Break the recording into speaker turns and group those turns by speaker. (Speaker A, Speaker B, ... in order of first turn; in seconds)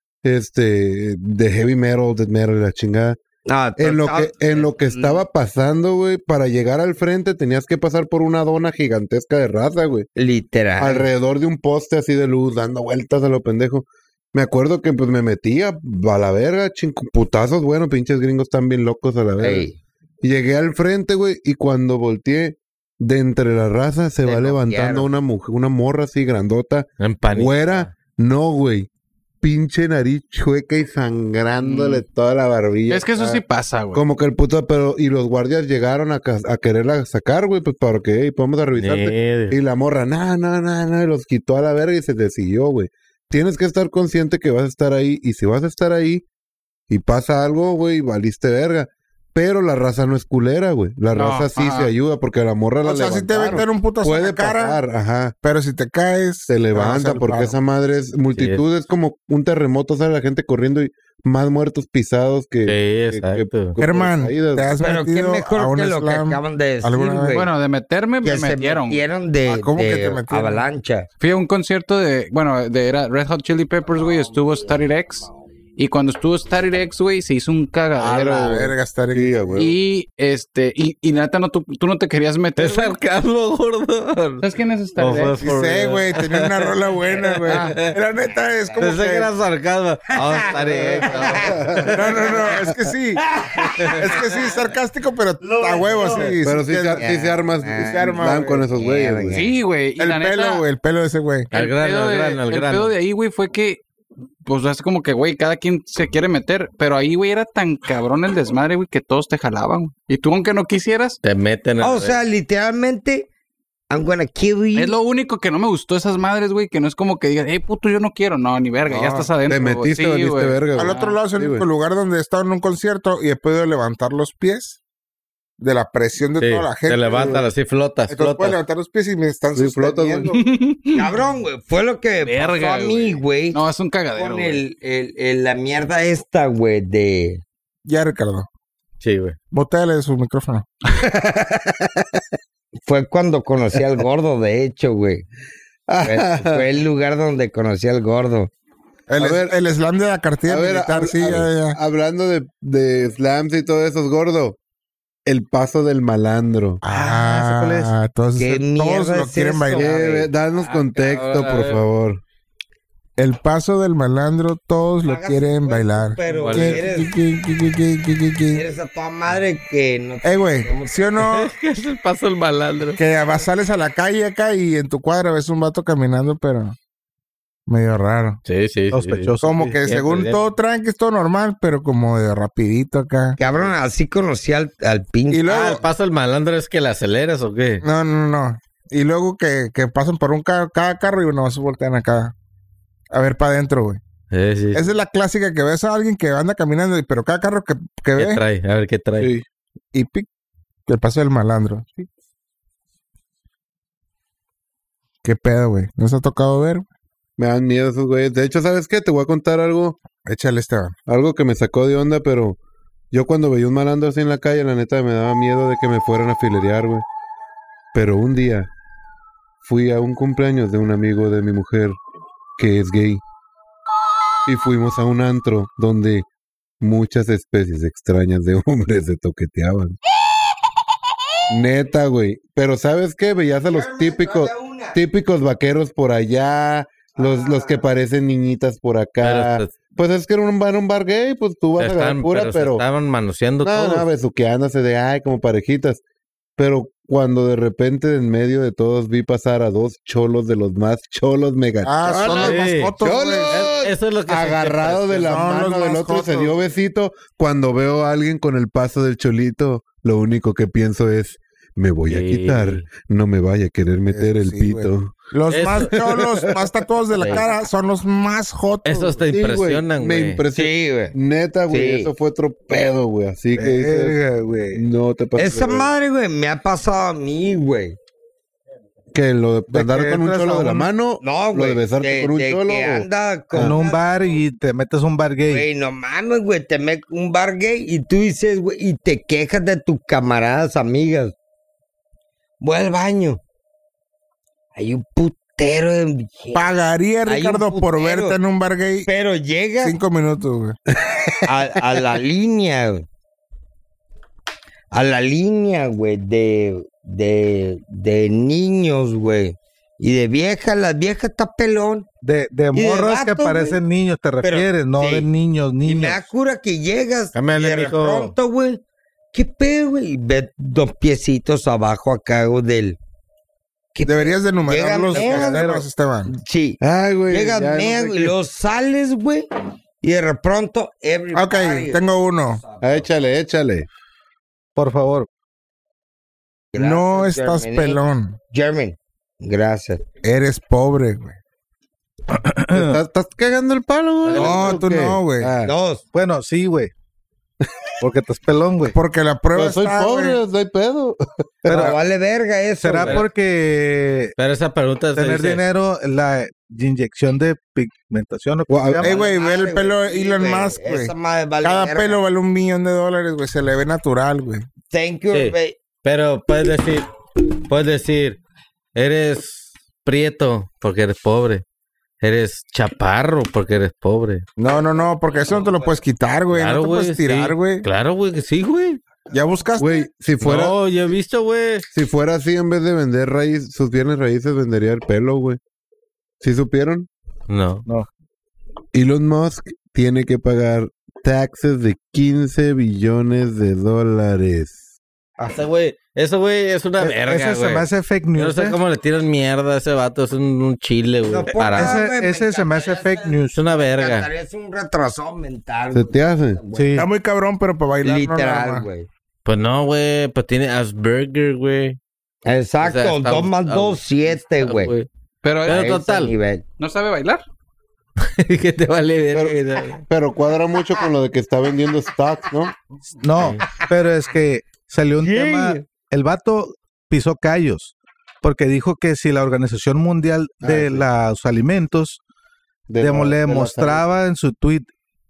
Speaker A: 0.2-3.2, 3.8-10.1, 10.8-19.7, 20.2-28.9, 29.4-33.4, 33.9-46.2, 46.9-55.3, 56.5-64.7, 79.1-79.7, 91.4-92.5, 96.4-99.5, 119.5-121.6, 127.1-127.4, 129.5-130.3, 141.0-141.9, 145.9-146.6, 149.2-149.5, 150.5-154.6, 155.2-156.8, 159.7-162.2, 199.2-199.4, 207.4-210.0, 211.1-212.6, 213.1-217.0, 217.9-218.7, 219.6-222.0, 222.6-223.2, 224.4-226.2, 226.8-230.0, 231.5-242.8, 243.6-246.0, 246.6-265.2, 265.9-266.7, 267.2-267.5, 269.3-274.2, 274.7-275.9, 279.1-283.8, 301.1-301.3, 326.8-328.3, 332.8-333.9, 342.7-345.7, 347.6-347.9, 349.5-351.9, 358.7-359.1, 379.8-380.8, 381.9-385.6, 386.4-387.1, 388.9-394.8, 405.9-406.6, 419.3-422.7, 430.6-431.1, 432.9-434.0
Speaker B: 3.5-5.2, 10.2-11.1, 19.4-19.8, 24.2-25.1, 64.8-67.5, 68.2-71.1, 90.2-91.5, 93.3-94.3, 95.4-96.3, 96.9-99.5, 111.8-113.3, 113.9-114.9, 130.9-133.6, 134.1-137.4, 142.8-145.2, 146.0-148.5, 158.3-160.3, 165.0-167.1, 168.5-170.9, 183.4-185.5, 233.7-235.0, 237.1-237.8, 270.5-271.1, 271.7-272.1, 275.4-278.0, 281.2-284.3, 285.5-291.3, 292.6-293.4, 294.7-296.6, 297.2-298.4, 299.1-300.0, 301.4-303.1, 304.9-312.1, 312.7-313.8, 314.4-315.3, 315.8-318.8, 319.3-323.0, 323.9-325.7, 326.3-329.5, 330.0-333.1, 336.7-340.0, 345.6-346.0, 351.7-353.2, 359.0-362.2, 364.9-365.8, 375.2-376.0, 401.3-407.0, 408.0-409.1, 412.4-414.9, 415.6-416.6, 419.7-420.0, 425.2-425.8
Speaker C: 27.0-27.9, 38.7-39.5, 58.3-58.6, 62.6-63.8, 82.6-84.4, 85.0-86.7, 87.2-87.9, 88.8-91.8, 93.8-94.1, 101.5-102.9, 111.2-112.2, 126.4-128.6, 139.0-139.4, 160.6-161.8, 166.3-166.9, 171.2-173.0, 178.4-180.4, 185.5-187.8, 194.3-194.9, 198.2-199.3, 239.2-239.7, 241.8-244.1, 252.3-252.9, 253.5-255.3, 262.1-262.9, 265.5-265.9, 267.2-267.4, 268.8-270.4, 317.3-318.3, 344.2-344.8, 354.4-355.6, 365.3-367.1, 367.6-368.4, 368.9-371.6, 372.2-374.4, 376.5-379.0, 380.4-381.9, 387.5-387.9, 395.4-402.0, 403.5-404.3, 409.4-412.0, 412.8-415.1, 415.6-416.3, 418.2-420.0, 423.4-423.6
Speaker D: 31.6-32.0, 32.9-34.0, 51.1-51.9, 67.3-69.0, 71.2-78.7, 79.5-83.0, 84.4-85.4, 99.3-100.6, 101.5-103.8, 104.5-111.2, 114.7-121.2, 130.3-131.1, 132.2-134.6, 415.4-415.9, 416.8-417.4
Speaker E: 52.8-54.8, 55.4-57.6, 63.8-67.4, 69.5-70.6, 78.1-79.3, 85.4-89.3, 91.9-93.2, 94.0-97.0, 97.8-98.5, 100.0-101.5, 118.9-119.3, 120.7-124.8, 125.6-127.5, 128.1-130.4, 137.8-138.5, 139.5-140.7, 149.1-151.8, 156.8-159.9, 163.2-168.7, 170.2-171.5, 172.9-176.8, 177.7-178.4, 179.4-183.4, 185.3-185.8, 187.8-192.3, 193.1-194.0, 194.7-198.4, 199.9-200.3, 200.9-201.9, 205.2-206.8, 210.1-210.9, 251.8-253.6, 255.1-256.6, 264.1-269.2, 296.5-299.1, 299.8-300.8, 324.0-326.3, 331.3-332.6, 336.8-338.4, 340.2-341.4, 344.3-345.5, 348.9-350.4, 359.0-364.6, 374.6-377.9, 379.3-380.0, 406.9-408.9
Speaker F: 156.8-157.9, 178.9-179.8, 273.6-274.8, 279.7-280.9, 283.6-285.6, 312.2-316.3, 325.2-325.9, 334.8-335.3, 342.3-343.0, 346.1-346.9, 348.0-348.9, 351.7-352.0, 352.8-354.3, 355.1-359.1, 397.0-398.8, 401.7-403.6, 406.7-407.1, 423.1-432.2, 433.0-434.9